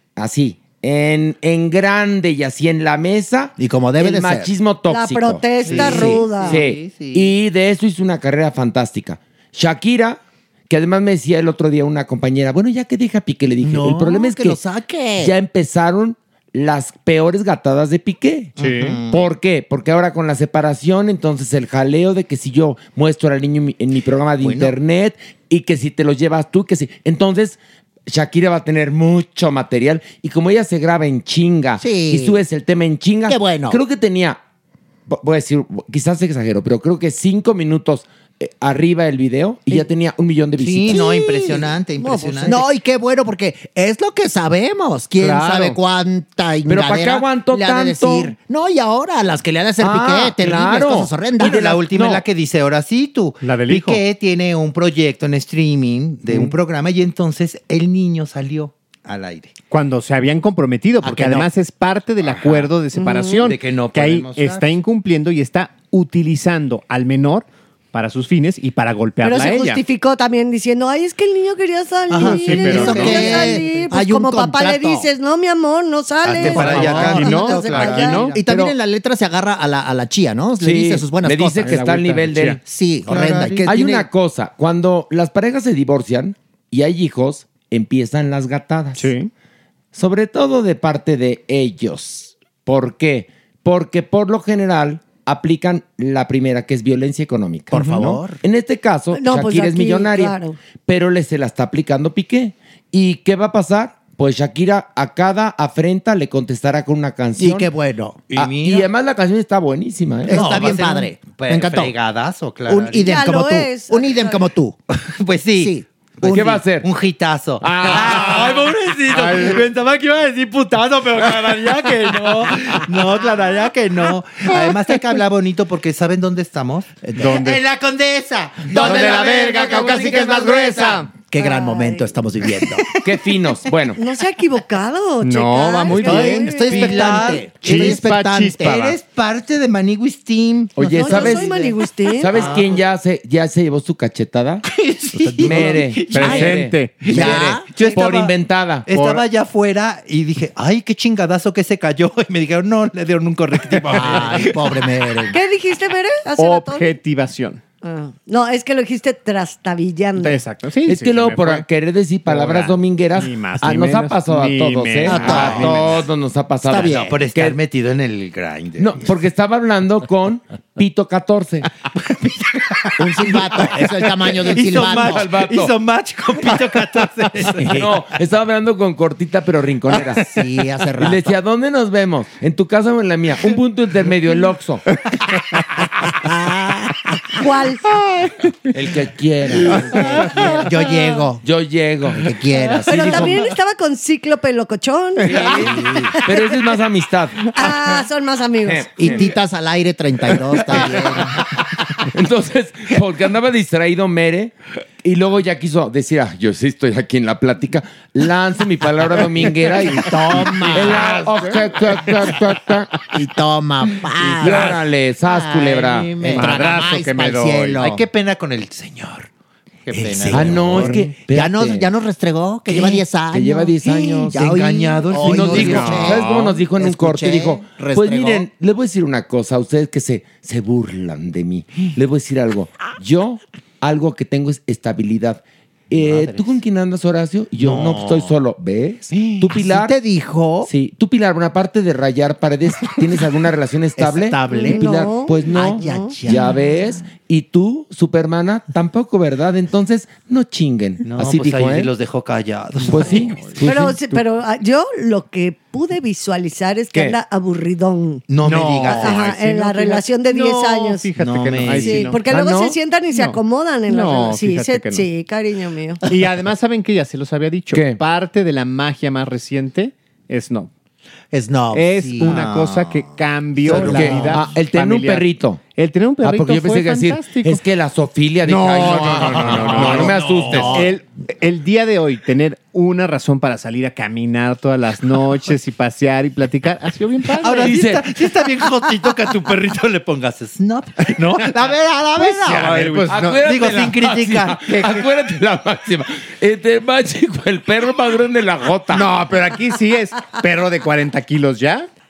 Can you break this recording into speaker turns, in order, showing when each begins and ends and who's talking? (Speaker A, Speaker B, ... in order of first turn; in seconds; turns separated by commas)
Speaker A: 0.1-14.6, Speaker B: 3.6-4.5, Speaker C: 4.9-6.6, Speaker D: 5.6-7.3, Speaker B: 13.6-15.3, Speaker A: 15.2-18.5, Speaker E: 18.6-19.0, Speaker D: 18.6-19.0, Speaker A: 19.1-34.4, Speaker B: 24.4-24.7, Speaker B: 31.8-32.4, Speaker B: 33.3-33.8, Speaker A: 35.1-41.1, Speaker D: 40.6-42.7, Speaker B: 40.9-41.7, Speaker C: 42.0-42.6, Speaker B: 42.5-51.7, Speaker E: 45.2-45.8, Speaker A: 46.7-48.3, Speaker A: 49.8-52.2, Speaker D: 51.4-59.5, Speaker E: 53.4-54.0, Speaker E: 59.7-69.8, Speaker B: 61.0-61.5, Speaker D: 62.2-62.7, Speaker C: 62.9-63.5, Speaker D: 63.4-64.7, Speaker C: 69.2-78.3, Speaker D: 72.1-73.6, Speaker B: 72.2-75.1, Speaker E: 72.2-73.5, Speaker D: 76.2-78.5, Speaker B: 76.3-81.7, Speaker E: 76.4-78.4, Speaker A: 80.6-82.6, Speaker E: 81.6-82.6, Speaker B: 82.6-84.0, Speaker D: 83.0-83.8, Speaker A: 83.6-89.1, Speaker E: 89.0-89.3, Speaker A: 89.9-107.7, Speaker B: 97.7-98.3, Speaker D: 97.7-98.4, Speaker C: 99.1-100.6, Speaker B: 107.4-108.3, Speaker D: 108.3-108.9, Speaker A: 108.3-110.5, Speaker B: 110.3-111.9, Speaker D: 110.3-113.2, Speaker B: 112.7-114.8, Speaker C: 113.0-114.4, Speaker D: 115.0-131.0, Speaker B: 115.5-115.8, Speaker A: 116.2-116.9, Speaker A: 117.6-118.6, Speaker E: 119.1-119.6, Speaker B: 127.0-127.4, Speaker E: 127.2-127.6, Speaker A: 128.7-131.0, Speaker E: 128.8-131.1, Speaker B: 130.0-132.9, Speaker C: 131.3-132.1, Speaker A: 133.0-134.0, Speaker C: 133.9-136.9, Speaker E: 135.2-139.0, Speaker B: 135.9-138.2, Speaker D: 136.7-142.8, Speaker A: 140.8-141.5, Speaker C: 140.9-142.3, Speaker A: 142.1-144.6, Speaker D: 144.7-148.3, Speaker E: 145.3-147.6, Speaker A: 145.4-148.9, Speaker B: 147.1-147.7, Speaker D: 148.9-154.9, Speaker E: 148.9-149.2, Speaker E: 153.7-154.4, Speaker B: 153.8-155.4, Speaker C: 155.3-156.9, Speaker E: 156.4-157.6, Speaker C: 157.8-160.4, Speaker E: 160.2-161.6, Speaker A: 160.8-167.6, Speaker E: 162.3-166.0, Speaker B: 165.1-165.7, Speaker D: 165.1-165.9, Speaker B: 166.7-167.2, Speaker D: 166.7-169.1, Speaker A: 168.8-171.7, Speaker D: 172.0-178.0, Speaker B: 173.0-175.2, Speaker A: 174.8-175.7, Speaker A: 177.6-180.2, Speaker B: 180.2-181.3, Speaker A: 181.0-184.8, Speaker B: 186.0-187.4, Speaker C: 187.4-187.8, Speaker A: 188.7-190.3, Speaker D: 190.0-190.6, Speaker B: 190.3-191.4, Speaker A: 191.4-192.3, Speaker B: 192.2-193.3, Speaker C: 192.8-196.6, Speaker A: 193.0-193.4, Speaker A: 195.2-197.4, Speaker D: 195.5-196.1, Speaker C: 197.5-199.1, Speaker A: 198.6-199.2, Speaker B: 199.0-201.4, Speaker A: 200.6-213.0, Speaker B: 209.9-211.1, Speaker E: 210.7-212.2, Speaker B: 213.1-214.7, Speaker A: 214.3-216.2, Speaker D: 214.4-214.7, Speaker B: 215.3-218.0, Speaker D: 215.6-216.6, Speaker E: 216.3-217.8, Speaker D: 217.8-219.3, Speaker D: 219.9-221.1, Speaker B: 219.9-228.4, Speaker A: 220.3-221.9, Speaker D: 222.7-223.0, Speaker A: 223.3-224.4, Speaker D: 224.3-226.2, Speaker A: 225.1-239.9, Speaker E: 225.5-226.3, Speaker D: 235.9-236.6, Speaker D: 237.6-238.3, Speaker D: 239.1-239.6, Speaker B: 239.5-240.7, Speaker A: 240.6-251.9, Speaker B: 244.0-246.5, Speaker C: 244.5-246.1, Speaker D: 251.1-253.4, Speaker A: 252.9-254.0, Speaker E: 253.1-254.2, Speaker C: 253.6-258.3, Speaker D: 258.3-259.4, Speaker E: 258.4-262.2, Speaker C: 258.9-261.1, Speaker D: 261.2-262.1, Speaker C: 261.7-266.0, Speaker A: 262.2-262.8, Speaker E: 263.1-265.1, Speaker E: 266.1-270.7, Speaker A: 267.7-268.0, Speaker B: 271.3-272.4, Speaker E: 271.7-275.2, Speaker D: 272.2-273.0, Speaker D: 273.6-274.3, Speaker B: 273.6-274.3, Speaker A: 273.7-275.6, Speaker E: 275.8-277.6, Speaker A: 276.2-280.8, Speaker E: 278.5-287.7, Speaker B: 278.6-280.9, Speaker D: 279.5-280.8, Speaker D: 287.4-295.0, Speaker A: 287.5-288.1, Speaker E: 292.2-293.4, Speaker A: 293.1-299.1, Speaker E: 298.9-301.9